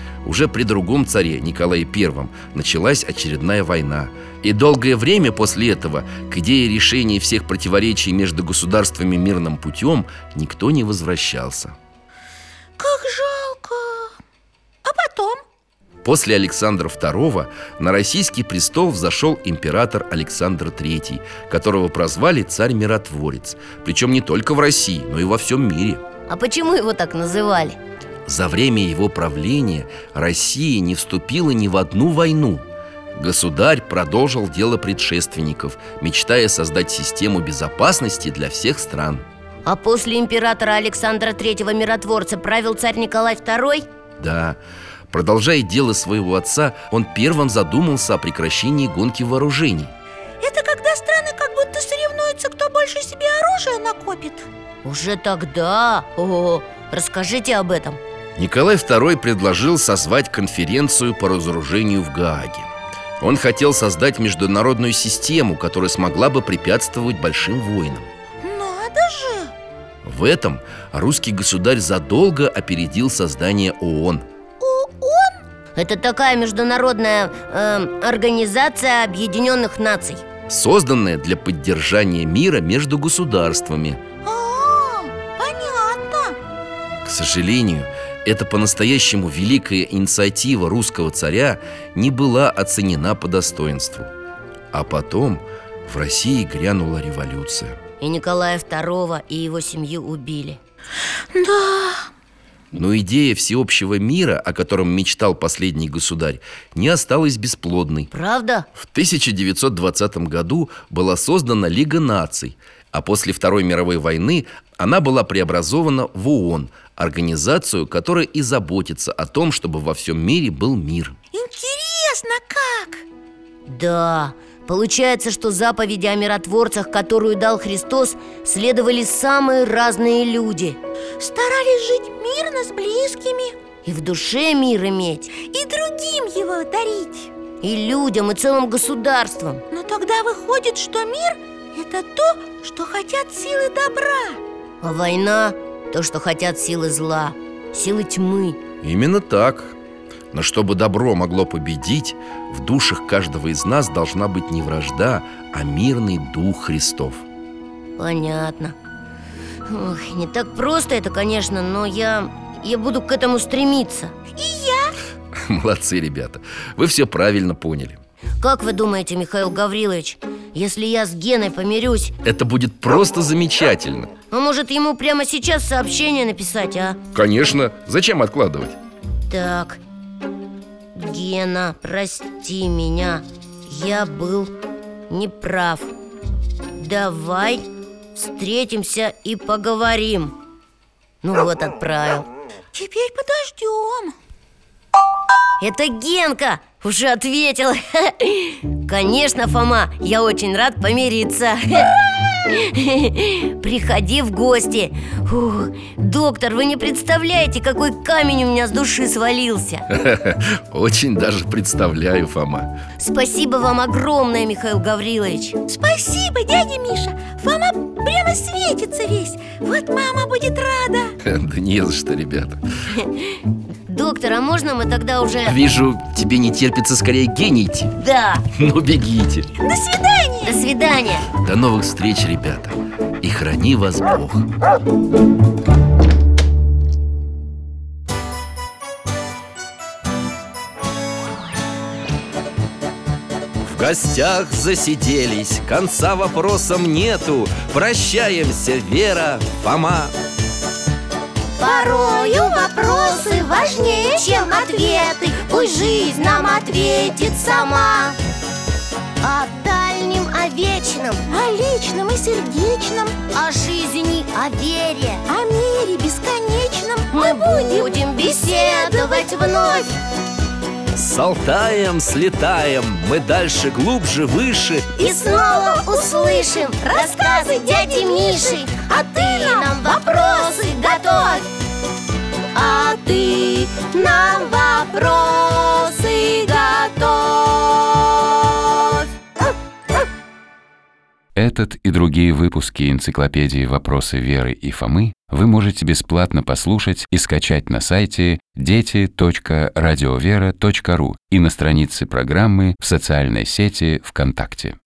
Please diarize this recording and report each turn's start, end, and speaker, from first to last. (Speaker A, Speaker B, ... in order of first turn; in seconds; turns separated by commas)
Speaker A: 0.2-11.8, Speaker B: 12.8-14.1, Speaker B: 14.8-15.4, Speaker A: 16.0-26.0, Speaker C: 26.3-27.8, Speaker A: 28.3-39.3, Speaker C: 39.6-43.9, Speaker A: 44.2-44.6, Speaker A: 45.1-49.9, Speaker B: 50.4-54.5, Speaker C: 54.8-58.0, Speaker A: 58.4-62.7, Speaker A: 63.2-68.1, Speaker B: 68.4-69.5, Speaker A: 70.0-74.2, Speaker B: 74.6-75.4, Speaker C: 75.8-80.2, Speaker A: 80.5-84.0, Speaker B: 84.2-86.4, Speaker A: 87.0-94.1, Speaker A: 94.7-97.8, Speaker C: 98.0-100.6, Speaker B: 101.3-102.1, Speaker A: 102.7-108.1, Speaker C: 108.1-108.7, Speaker A: 108.8-121.2, Speaker B: 121.3-123.0, Speaker C: 123.7-130.8, Speaker B: 131.2-133.6, Speaker C: 133.8-135.3, Speaker B: 135.4-137.3, Speaker C: 137.6-139.6, Speaker B: 139.7-144.4, Speaker C: 144.8-148.6, Speaker A: 148.8-149.7, Speaker A: 150.3-157.2, Speaker C: 158.0-158.8, Speaker C: 159.7-164.2, Speaker B: 164.3-164.9, Speaker A: 165.4-168.0, Speaker C: 168.4-172.1, Speaker A: 172.2-174.1, Speaker C: 174.3-177.0, Speaker A: 177.1-178.8, Speaker C: 179.3-179.8, Speaker C: 180.9-184.5, Speaker C: 185.1-185.9, Speaker C: 186.8-190.4, Speaker C: 191.2-192.3, Speaker B: 192.7-194.2, Speaker C: 195.6-201.9, Speaker C: 202.5-209.9, Speaker A: 209.9-212.8, Speaker C: 213.0-215.6, Speaker B: 215.7-221.1, Speaker A: 221.2-222.6, Speaker C: 223.0-223.4, Speaker C: 223.9-225.6, Speaker A: 225.5-227.9, Speaker C: 228.0-228.4, Speaker A: 228.6-229.5, Speaker B: 229.6-230.6, Speaker C: 230.4-231.3, Speaker A: 231.4-234.5, Speaker A: 243.6-250.1, Speaker C: 251.6-258.2, Speaker B: 251.8-254.2, Speaker C: 259.2-261.3, Speaker B: 261.3-263.2, Speaker C: 263.3-265.2, Speaker B: 265.3-269.5, Speaker C: 267.1-270.0, Speaker A: 270.9-275.0, Speaker C: 275.0-281.4, Speaker B: 275.1-276.1, Speaker B: 276.8-280.4, Speaker C: 282.6-288.9, Speaker D: 291.4-304.8